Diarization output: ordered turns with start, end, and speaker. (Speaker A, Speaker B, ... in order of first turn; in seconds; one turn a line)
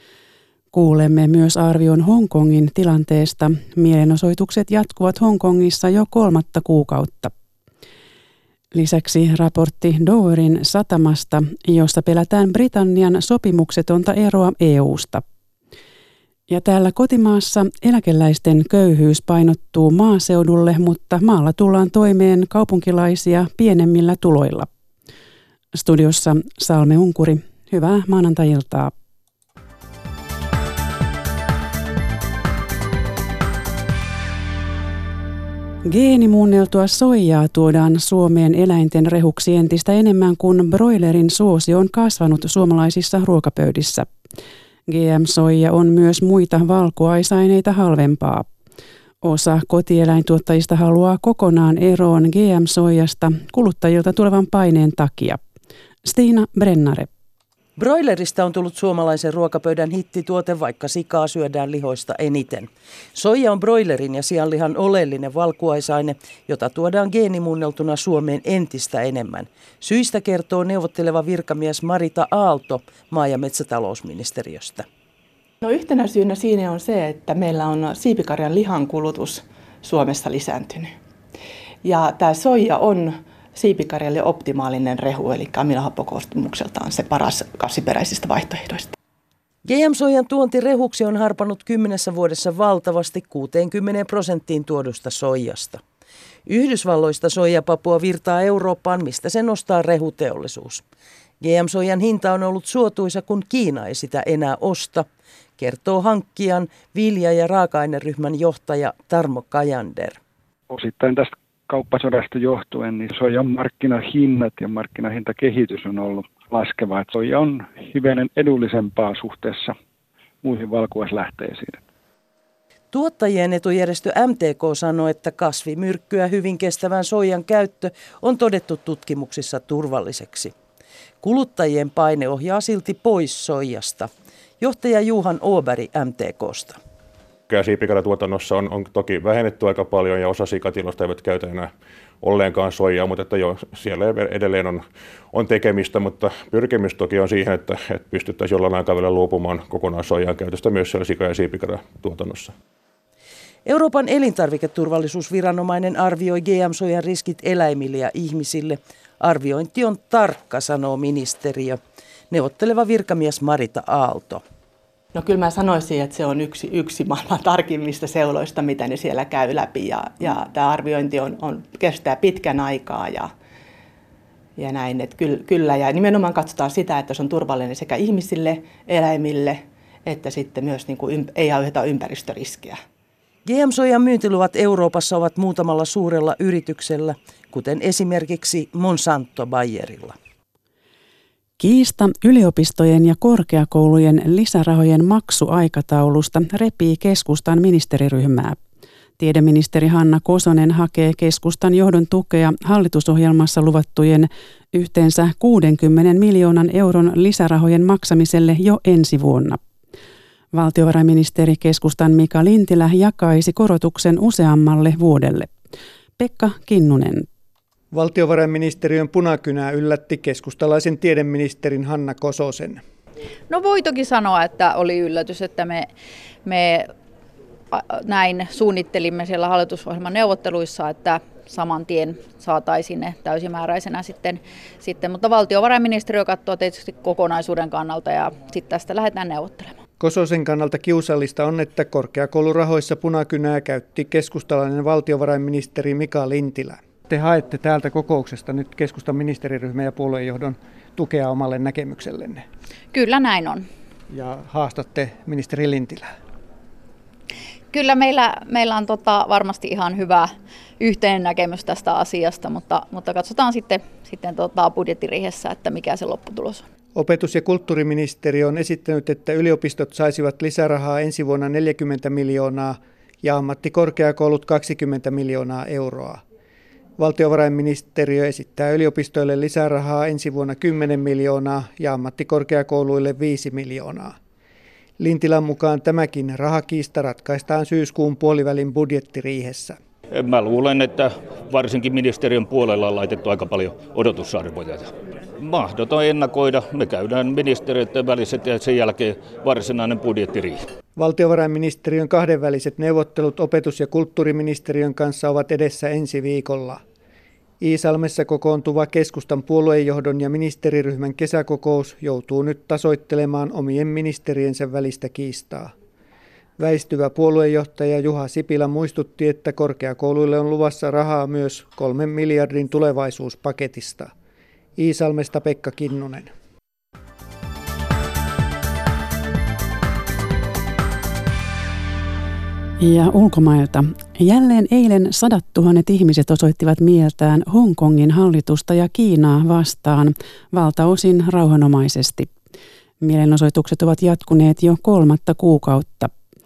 Speaker A: 0.7-7.3
Speaker A: 8.7-15.2
Speaker A: 16.5-24.7
Speaker A: 25.7-28.9
Speaker A: 35.8-44.1
Speaker A: 44.9-48.5
Speaker A: 49.2-55.4
Speaker A: 56.0-57.1
Speaker B: 57.8-74.8
Speaker C: 75.6-81.0
Speaker C: 81.8-88.9
Speaker B: 89.6-95.8
Speaker B: 96.5-100.8
Speaker B: 101.4-105.1
Speaker B: 105.6-110.2
Speaker D: 110.7-119.8
Speaker D: 120.4-121.8
Speaker B: 122.9-130.5
Speaker B: 131.2-136.8
Speaker E: 137.5-152.5
Speaker B: 153.7-161.8
Speaker B: 162.3-164.4
Speaker C: 165.1-173.3
Speaker C: 174.6-182.8
Speaker B: 183.4-190.2
Speaker A: 191.6-198.6
Speaker A: 199.2-209.6
Speaker A: 210.5-215.5
Speaker A: 216.2-217.3
Speaker F: 217.9-222.8
Speaker G: 223.5-225.9
Speaker G: 226.4-226.9
Speaker G: 227.7-239.8
Speaker F: 240.0-252.4
Speaker G: 252.9-253.7
Speaker F: 254.1-256.1
Speaker G: 257.7-266.6
Speaker F: 266.9-276.2
Speaker F: 277.0-284.1
Speaker F: 285.0-289.8
Speaker H: 290.1-300.6
Speaker F: 300.9-306.8
Speaker F: 307.6-315.7
Speaker F: 316.6-324.1
Speaker F: 324.8-326.3
Speaker A: 332.8-342.3
Speaker A: 343.0-346.1